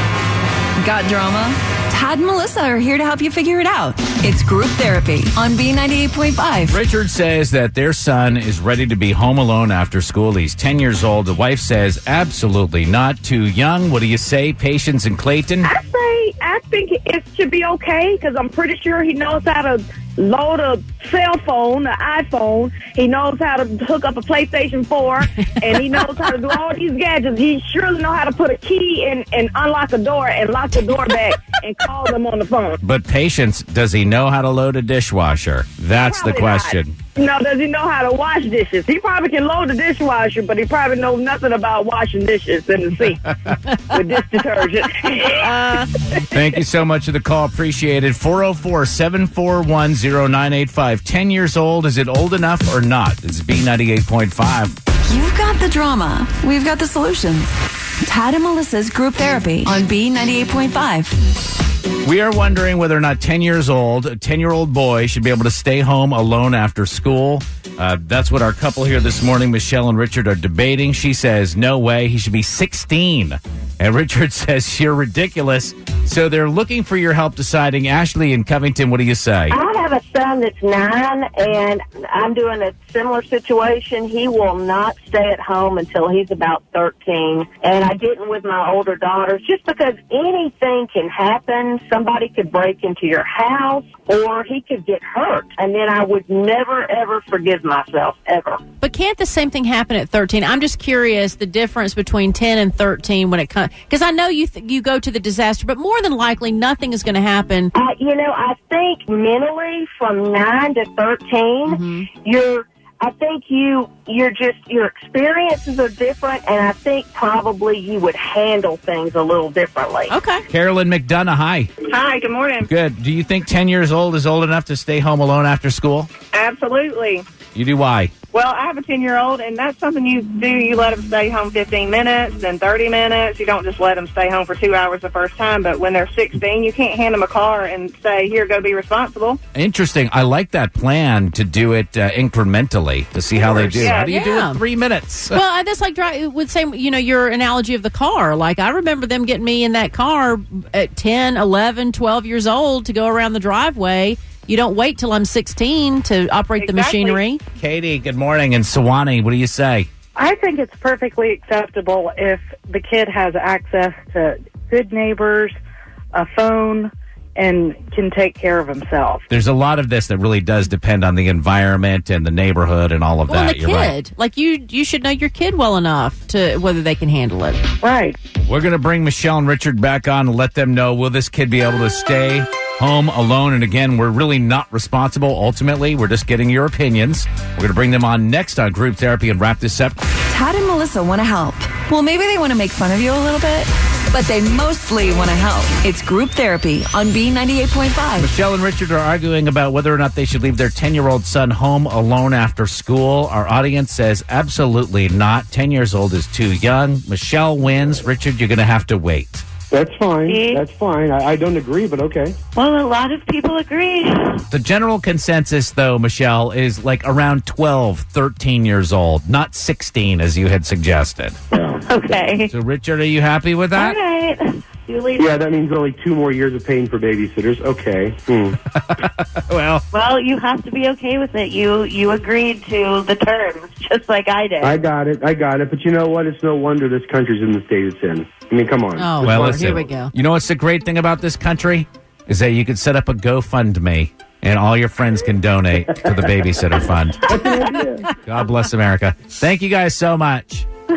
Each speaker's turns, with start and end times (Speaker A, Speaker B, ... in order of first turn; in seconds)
Speaker A: 0.8-6.8, 55.1-57.5, 58.0-61.1, 190.3-198.3, 212.8-213.1
Speaker B: 6.7-15.7, 32.8-36.9, 46.3-54.7, 62.0-79.6, 120.5-121.7, 122.6-126.1, 127.5-128.1, 139.5-145.4, 157.6-159.9, 169.3-173.9, 178.4-190.0, 198.2-209.4, 214.5-221.4, 222.5-224.0, 228.8-229.8, 239.2-247.2, 248.2-250.7
Speaker C: 15.6-32.8, 36.0-45.9
Speaker D: 79.5-98.6, 107.7-120.1
Speaker E: 98.8-107.7, 111.7-112.1, 120.1-120.4, 143.9-144.6, 145.3-157.4, 173.3-177.6, 239.0-240.1
Speaker F: 121.9-122.7, 126.3-127.2, 128.3-139.4, 143.3-144.3, 156.6-157.2
Speaker G: 160.2-165.6, 166.1-169.2, 177.8-178.2
Speaker H: 209.7-212.4, 221.5-222.1, 225.2-228.6, 234.6-239.8, 247.3-248.1
Speaker I: 210.3-210.6, 212.6-214.0, 224.0-224.3, 224.9-225.2, 229.9-234.7